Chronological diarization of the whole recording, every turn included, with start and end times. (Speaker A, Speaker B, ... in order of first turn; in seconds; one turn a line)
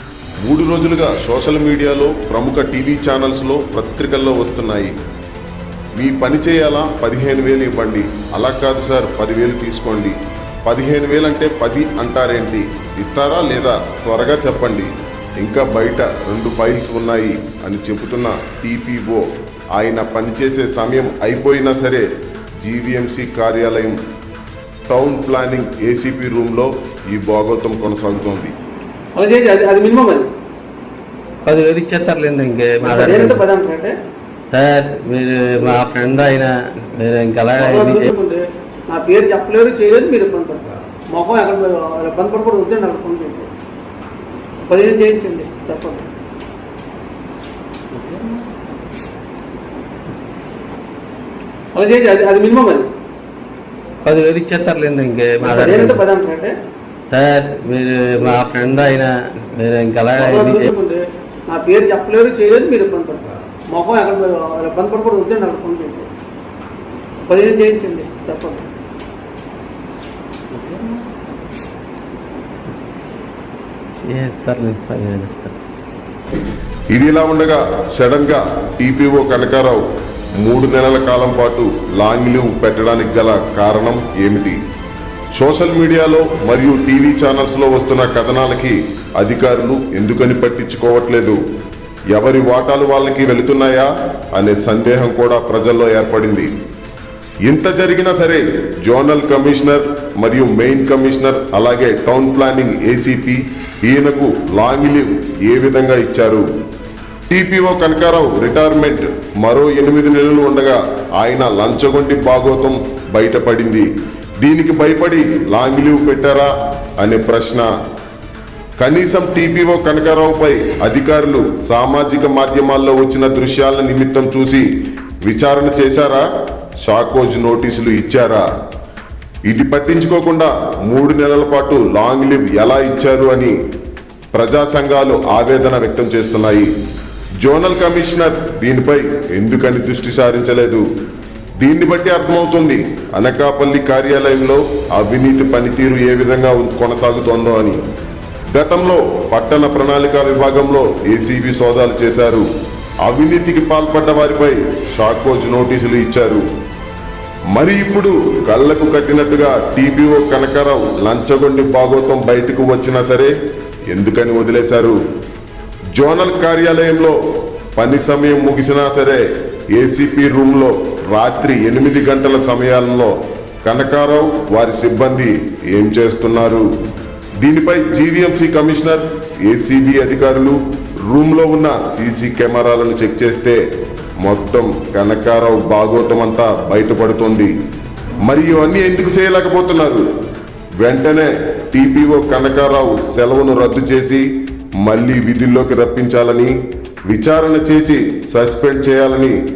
Speaker A: 0.4-4.9
Speaker A: 6.0-22.1
Speaker A: 22.6-24.0
Speaker A: 24.9-28.5
Speaker B: 29.1-30.3
Speaker C: 31.4-33.4
Speaker B: 32.8-33.9
Speaker C: 34.5-38.1
Speaker B: 37.6-43.5
Speaker B: 44.6-46.0
Speaker B: 51.7-52.9
Speaker C: 54.0-56.0
Speaker B: 55.4-56.5
Speaker C: 57.1-60.7
Speaker B: 60.1-66.1
Speaker B: 67.2-68.7
Speaker C: 74.0-75.5
Speaker A: 76.9-79.8
Speaker A: 80.4-84.6
Speaker A: 85.3-91.4
Speaker A: 92.1-96.5
Speaker A: 97.5-106.4
Speaker A: 107.3-113.9
Speaker A: 114.4-117.7
Speaker A: 118.8-124.7
Speaker A: 125.2-126.2
Speaker A: 126.8-128.4
Speaker A: 129.5-133.6
Speaker A: 134.3-136.7
Speaker A: 137.4-140.8
Speaker A: 141.6-147.8
Speaker A: 148.5-152.4
Speaker A: 153.0-156.4
Speaker A: 157.5-163.3
Speaker A: 163.9-165.0
Speaker A: 166.0-167.2
Speaker A: 167.8-169.2
Speaker A: 169.7-173.1
Speaker A: 173.6-176.7
Speaker A: 177.4-183.6
Speaker A: 184.2-187.5
Speaker A: 188.2-190.0
Speaker A: 190.8-194.2
Speaker A: 194.8-196.5
Speaker A: 197.1-199.4